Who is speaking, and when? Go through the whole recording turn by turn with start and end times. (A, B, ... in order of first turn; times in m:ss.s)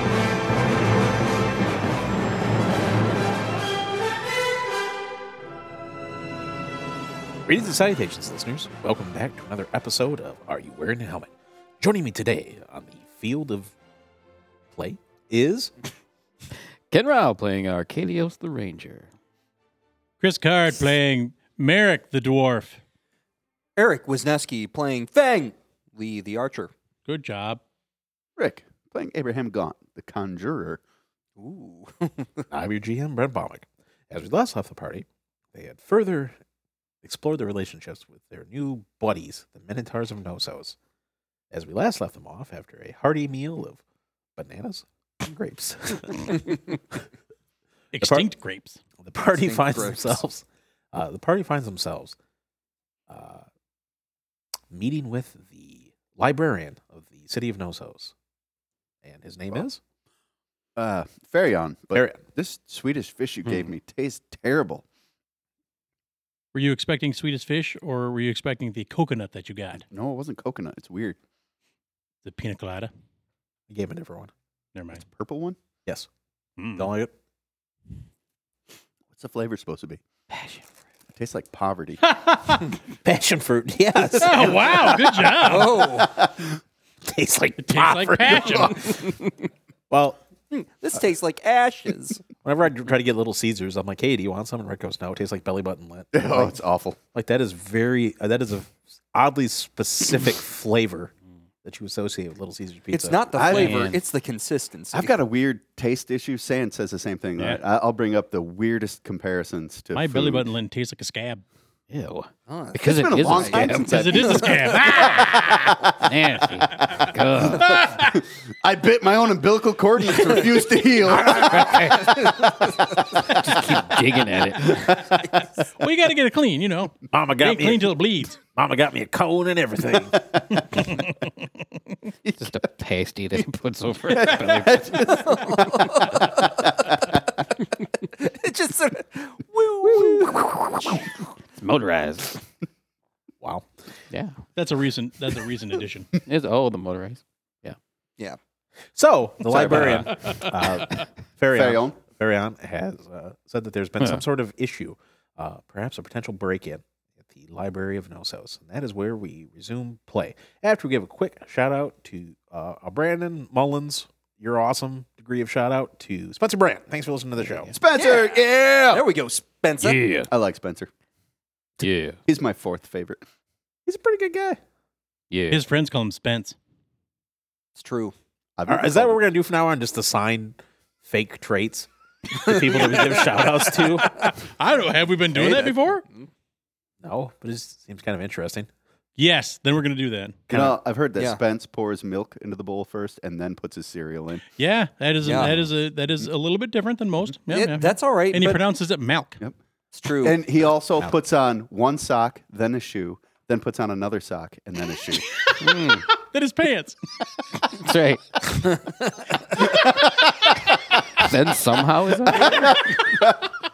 0:07.5-0:13.7 A
0:14.7-0:15.7 A
0:16.9-0:19.1 B
0:20.2-0:22.8 C
0:23.8-0:26.7 D
0:27.0-0:27.6 C
0:28.4-0:30.8 E
0:31.4-0:32.4 D
0:32.5-0:36.4 A
0:37.0-0:40.8 A
0:41.5-0:43.8 A
0:44.4-0:46.6 A
0:47.9-0:48.8 C
0:48.0-0:48.3 A
0:49.0-0:52.2 A
0:49.4-0:50.2 D
0:53.1-0:53.4 A
0:54.7-0:58.1 A
0:59.0-0:59.8 A
1:00.8-1:04.8 E
1:06.5-1:09.8 C
1:09.9-1:11.2 E
1:12.2-1:12.9 C
1:13.7-1:14.3 A
1:14.8-1:15.0 C
1:15.0-1:15.6 E
1:16.6-1:16.9 C
1:16.8-1:17.1 A
1:19.1-1:20.0 E
1:20.3-1:20.6 B
1:21.1-1:22.0 E
1:22.2-1:22.6 C
1:23.0-1:25.6 A
1:24.2-1:25.9 C
1:25.4-1:26.2 D
1:26.1-1:26.5 E
1:27.0-1:29.2 A
1:27.6-1:29.0 C
1:29.9-1:30.2 A
1:30.5-1:32.2 D
1:32.4-1:36.6 A
1:36.1-1:37.0 E
1:37.1-1:41.1 A
1:41.6-1:43.2 A
1:42.9-1:45.1 D
1:43.3-1:43.9 E
1:43.5-1:44.0 B
1:44.9-1:50.5 E
1:49.9-1:51.4 C
1:51.9-1:54.3 B
1:52.5-1:53.7 D
1:52.8-1:55.6 E
1:53.8-1:55.6 C
1:56.0-1:57.9 B
1:56.9-1:58.1 C
1:57.9-2:02.7 E
2:01.0-2:02.4 A
2:03.2-2:05.1 B
2:05.8-2:08.4 C
2:07.1-2:10.2 A
2:10.7-2:11.0 C
2:12.4-2:15.4 B
2:14.1-2:17.0 E
2:14.6-2:16.5 D
2:18.2-2:20.4 D
2:21.5-2:22.4 B
2:23.4-2:23.7 A
2:24.1-2:24.4 B
2:24.6-2:26.1 C
2:26.2-2:27.8 B
2:28.9-2:47.7 A
2:29.4-2:30.4 B
2:31.5-2:32.0 E
2:47.4-2:47.8 B
2:47.7-2:49.1 E
2:48.0-2:48.2 D
2:48.9-2:50.1 D
2:49.8-2:50.3 B
2:50.3-2:50.9 E
2:51.8-2:52.2 B
2:52.3-2:53.2 E
2:53.8-2:54.6 A
2:55.3-2:55.6 B
2:55.5-2:56.6 C
2:57.8-2:58.1 D
2:58.6-2:59.2 E
2:58.7-3:04.3 A
3:02.3-3:03.3 D
3:04.2-3:06.0 C
3:05.3-3:06.3 D
3:07.0-3:08.7 A
3:09.2-3:10.4 C
3:10.5-3:10.8 A
3:10.5-3:14.4 E
3:11.2-3:11.4 D
3:14.6-3:19.4 C
3:15.2-3:15.5 D
3:17.5-3:18.6 D
3:19.9-3:20.4 D
3:20.2-3:25.3 E
3:25.4-3:27.0 C
3:25.6-3:26.1 B
3:27.6-3:28.8 B
3:28.8-3:29.1 D
3:31.1-3:32.8 B
3:32.4-3:33.3 E